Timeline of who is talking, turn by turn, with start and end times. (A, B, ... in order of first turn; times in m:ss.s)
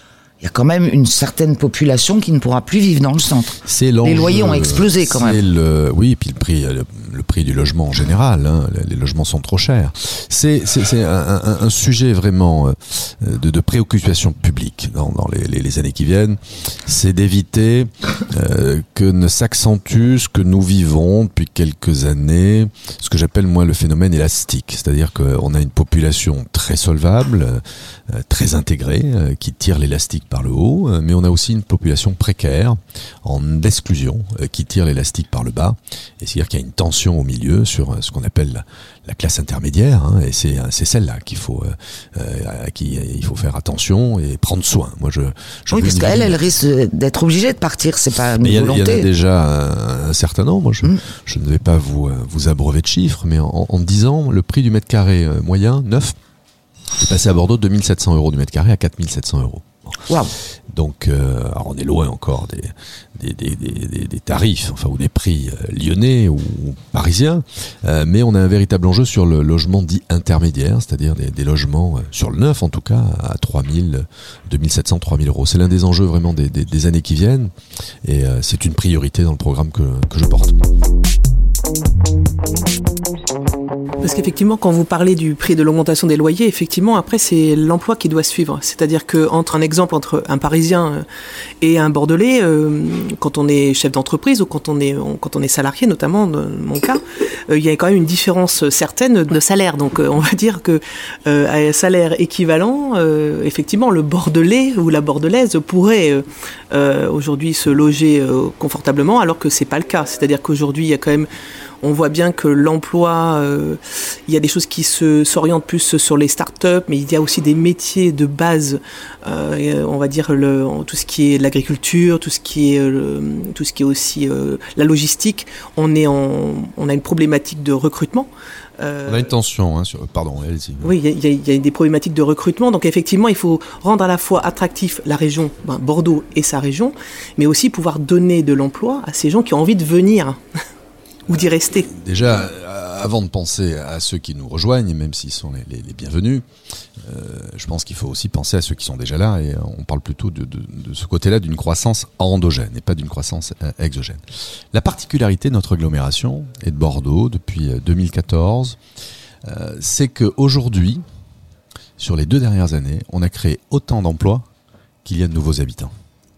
0:00.4-0:05.4 A
0:03.6-0:46.4 B
0:45.7-0:49.1 A
0:48.4-0:56.2 B
0:57.0-1:00.1 B
1:00.1-1:00.3 A
1:00.7-1:17.5 B
1:18.0-1:20.6 B
1:24.0-1:31.0 C
1:31.6-1:51.3 C
1:51.8-2:09.2 C
2:09.0-2:10.9 B
2:10.8-2:20.4 C
2:21.3-2:21.9 C
2:21.9-2:26.4 B
2:27.0-2:34.2 B
2:34.7-2:38.8 B
2:39.4-2:41.0 B
2:42.0-2:44.5 B
2:45.0-2:45.9 B